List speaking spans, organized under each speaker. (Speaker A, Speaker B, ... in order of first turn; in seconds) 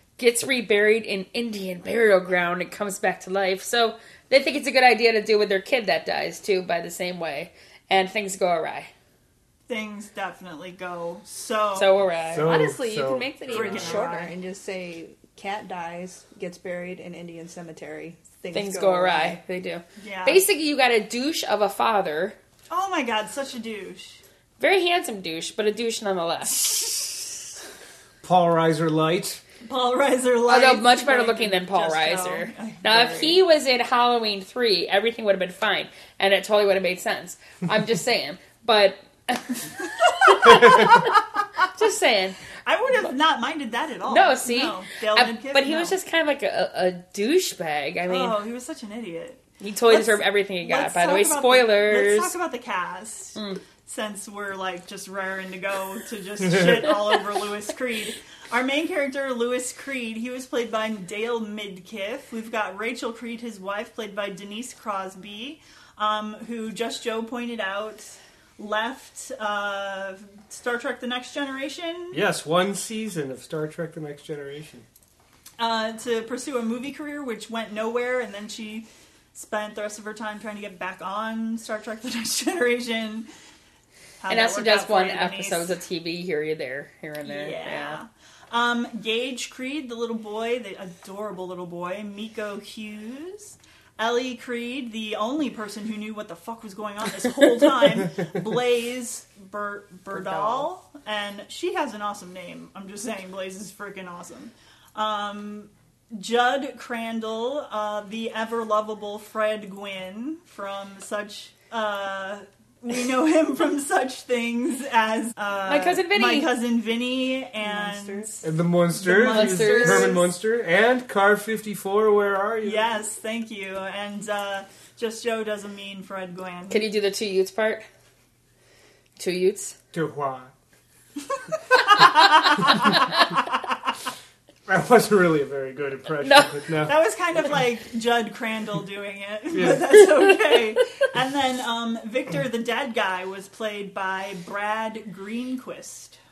Speaker A: 0.2-8.9, 11.7-12.5, 18.5-22.4, 24.6-26.9, 30.5-41.2, 41.7-42.4, 44.1-48.4, 49.6-52.3, 53.4-53.6, 84.3-88.0, 115.7-116.5, 119.0-120.1, 126.7-127.8, 129.2-129.8, 136.2-136.6
Speaker B: 9.7-11.9, 13.5-14.3, 20.0-20.4, 22.7-24.2, 29.6-33.4, 40.0-40.9, 42.6-46.0, 48.1-72.2, 75.6-83.3, 84.2-85.7, 87.2-120.3, 122.6-126.8, 131.7-133.2, 136.8-146.2
Speaker C: 12.3-14.0, 28.2-29.4, 72.1-74.8, 100.1-100.7, 118.4-122.8, 129.9-130.5, 134.7-136.9, 139.5-140.0
Speaker D: 12.4-19.4, 117.6-118.3